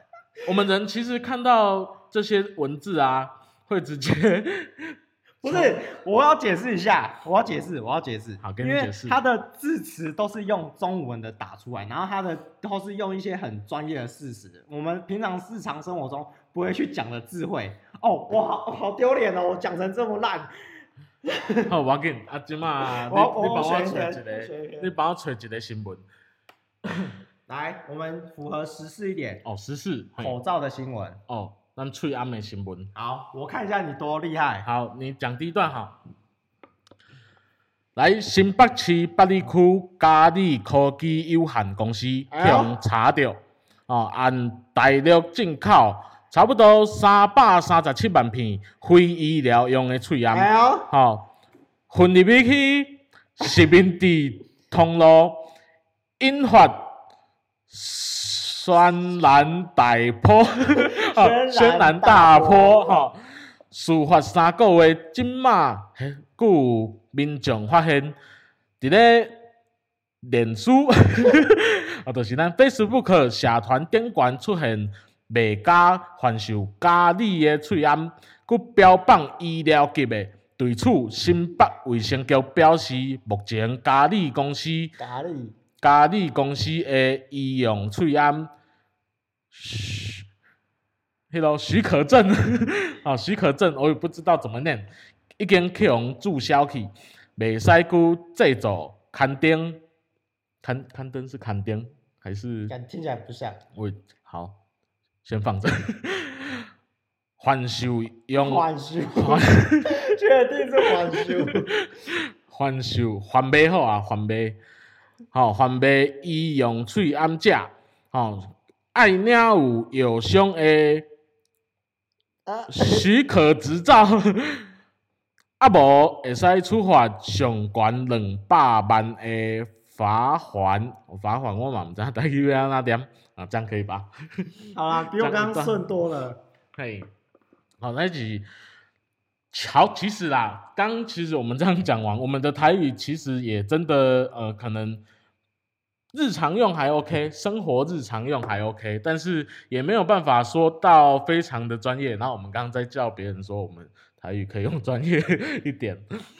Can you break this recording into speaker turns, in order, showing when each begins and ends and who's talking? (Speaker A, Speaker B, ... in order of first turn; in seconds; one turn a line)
Speaker A: 0.4-5.8
Speaker B: 5.4-20.5
Speaker A: 8.4-9.2
Speaker B: 21.2-21.7
Speaker A: 21.7-26.1
Speaker B: 23.1-24.9
Speaker B: 27.5-29.4
Speaker A: 29.4-30.4
Speaker B: 30.2-31.2
Speaker A: 31.3-32.9
Speaker B: 32.9-34.7
Speaker A: 34.6-36.0
Speaker A: 38.0-51.3
Speaker B: 42.3-42.8
Speaker B: 50.3-50.9
Speaker A: 51.9-55.5
Speaker A: 56.2-57.0
Speaker A: 57.7-68.2
Speaker B: 60.7-63.1
Speaker A: 68.8-69.4
Speaker A: 70.2-85.0
Speaker B: 85.0-85.5
Speaker A: 85.8-88.5
Speaker A: 89.5-90.3
Speaker A: 91.3-99.8
Speaker A: 100.6-102.7
Speaker B: 102.7-103.6
Speaker A: 103.8-104.6
Speaker A: 105.2-106.7
Speaker A: 107.4-110.0
Speaker B: 108.4-111.7
Speaker A: 111.2-114.6
Speaker A: 115.3-121.1
Speaker B: 122.5-123.1
Speaker A: 122.7-124.7
Speaker A: 125.6-135.9
Speaker B: 134.7-136.4
Speaker A: 136.8-137.1
Speaker A: 137.8-138.5
Speaker A: 139.5-145.0
Speaker A: 146.1-156.1